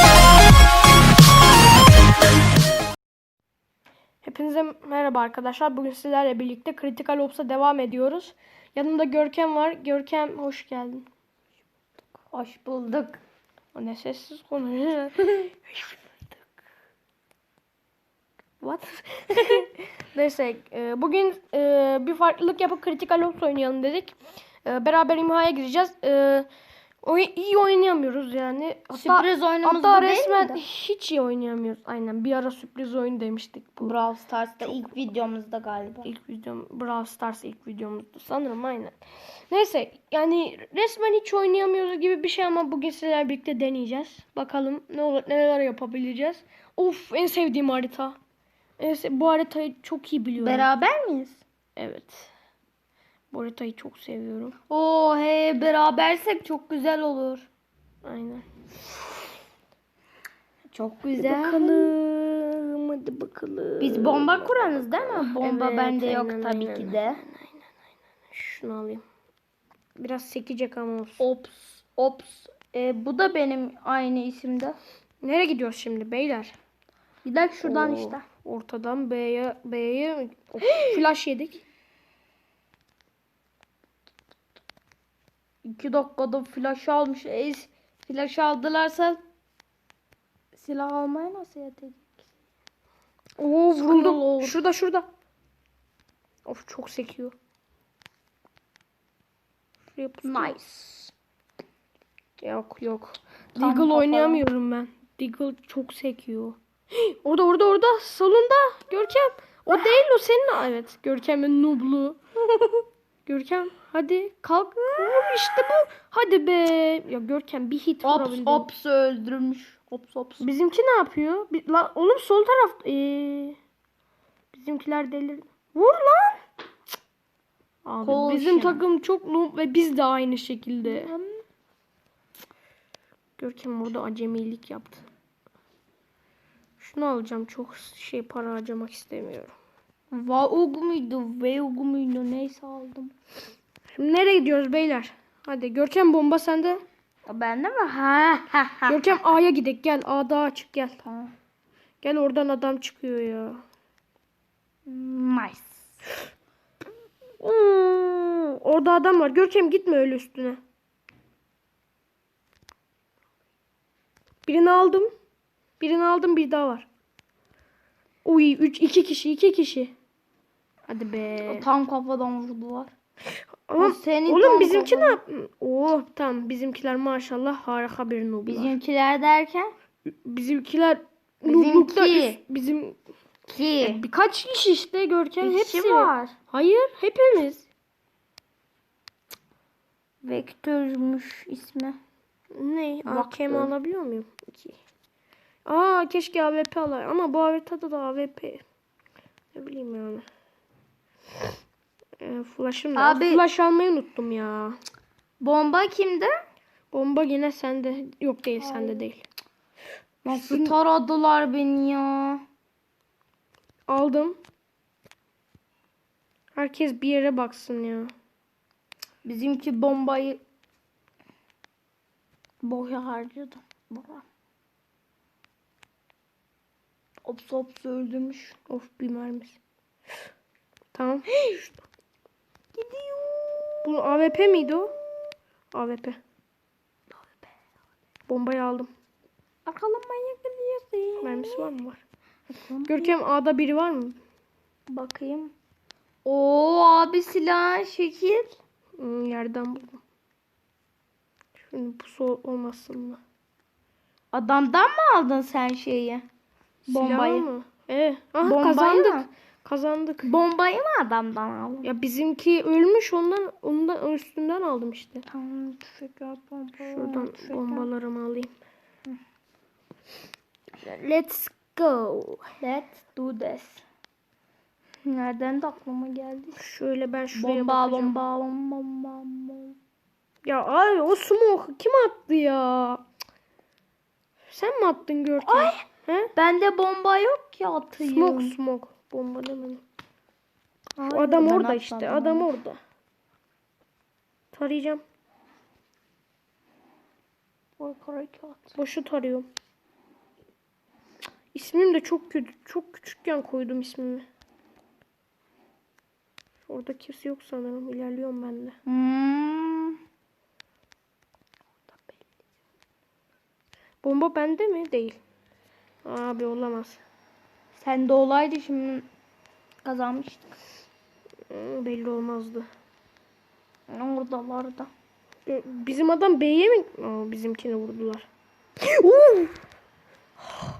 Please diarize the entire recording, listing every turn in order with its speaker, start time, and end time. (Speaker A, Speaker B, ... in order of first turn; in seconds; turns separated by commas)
Speaker A: 4.2-11.1, Speaker B: 12.3-13.2, Speaker A: 13.7-15.9, Speaker A: 18.6-26.5, Speaker A: 27.0-33.9, Speaker B: 28.9-30.6, Speaker B: 33.8-36.1, Speaker A: 36.0-38.9, Speaker A: 39.5-48.2, Speaker A: 48.8-50.7, Speaker B: 50.4-51.4, Speaker A: 51.8-52.3, Speaker A: 53.3-54.5, Speaker B: 54.7-57.5, Speaker A: 58.0-58.5, Speaker B: 60.7-61.9, Speaker A: 61.1-67.7, Speaker B: 63.8-67.2, Speaker A: 68.3-69.0, Speaker A: 70.0-71.2, Speaker B: 71.2-74.8, Speaker A: 75.2-76.5, Speaker B: 77.2-78.2, Speaker A: 77.6-81.6, Speaker B: 80.6-81.0, Speaker B: 85.6-89.2, Speaker B: 90.5-92.2, Speaker A: 93.4-95.0, Speaker B: 93.7-94.6, Speaker A: 96.5-97.3, Speaker A: 99.9-100.6, Speaker B: 100.2-101.1, Speaker A: 102.4-112.2, Speaker B: 103.5-104.4, Speaker A: 113.2-118.7, Speaker B: 114.8-115.6, Speaker B: 118.0-120.4, Speaker A: 120.4-123.6, Speaker A: 124.5-126.4, Speaker A: 127.8-131.1, Speaker B: 128.0-128.8, Speaker B: 130.8-131.4, Speaker A: 133.4-135.1, Speaker A: 136.8-139.5, Speaker B: 140.1-143.1, Speaker A: 143.9-146.8, Speaker B: 147.3-149.1, Speaker A: 148.9-151.0, Speaker B: 151.0-151.3, Speaker A: 152.0-153.6, Speaker B: 154.9-155.9, Speaker A: 157.4-160.6, Speaker A: 164.4-165.1, Speaker A: 165.8-166.9, Speaker A: 168.2-169.9, Speaker A: 170.9-171.6, Speaker B: 171.4-172.9, Speaker A: 173.7-178.7, Speaker B: 173.8-175.2, Speaker B: 178.5-179.7, Speaker A: 180.1-183.0, Speaker B: 181.4-182.4, Speaker B: 183.5-184.0, Speaker A: 183.8-187.7, Speaker B: 185.4-186.3, Speaker B: 190.2-192.0, Speaker A: 192.5-194.8, Speaker B: 193.0-193.7, Speaker A: 195.7-198.6, Speaker A: 199.5-200.2, Speaker A: 202.2-204.8, Speaker B: 202.9-203.4, Speaker B: 205.4-206.3, Speaker A: 206.9-209.2, Speaker B: 208.6-209.1, Speaker B: 210.2-212.4, Speaker A: 210.3-210.7, Speaker A: 213.9-214.4, Speaker A: 216.5-218.1, Speaker B: 219.2-220.4, Speaker B: 222.6-224.2, Speaker B: 227.2-228.6, Speaker A: 228.7-229.6, Speaker A: 230.9-231.3, Speaker B: 231.3-231.7, Speaker B: 232.7-235.0, Speaker A: 233.8-234.9, Speaker A: 235.7-236.2, Speaker A: 238.3-238.9, Speaker B: 239.6-241.7, Speaker A: 241.2-242.0, Speaker B: 242.5-243.1, Speaker A: 242.9-244.2, Speaker B: 244.9-245.5, Speaker B: 246.2-248.5, Speaker A: 249.0-250.0, Speaker A: 251.7-253.2, Speaker B: 254.3-256.2, Speaker B: 256.9-257.5, Speaker A: 256.9-260.3, Speaker B: 258.4-259.3, Speaker B: 260.2-261.9, Speaker A: 261.8-265.2, Speaker B: 265.3-267.9, Speaker A: 266.9-268.5, Speaker A: 270.9-272.4, Speaker B: 271.5-271.8, Speaker B: 272.6-273.8, Speaker B: 275.0-276.6, Speaker A: 276.6-278.1, Speaker B: 277.3-279.8, Speaker A: 280.4-283.0, Speaker A: 284.5-286.3, Speaker B: 285.4-285.8, Speaker B: 286.4-288.6, Speaker A: 288.0-289.8, Speaker B: 291.0-292.5, Speaker A: 291.1-292.8, Speaker A: 294.5-295.0, Speaker B: 297.8-298.8, Speaker A: 298.8-299.5, Speaker A: 301.5-304.2, Speaker A: 306.7-308.8, Speaker B: 308.9-310.0, Speaker A: 314.0-315.2, Speaker A: 316.0-317.0, Speaker B: 317.7-319.1, Speaker B: 319.8-320.6, Speaker A: 321.5-322.7, Speaker B: 323.9-324.9, Speaker A: 325.4-328.2, Speaker A: 328.8-329.5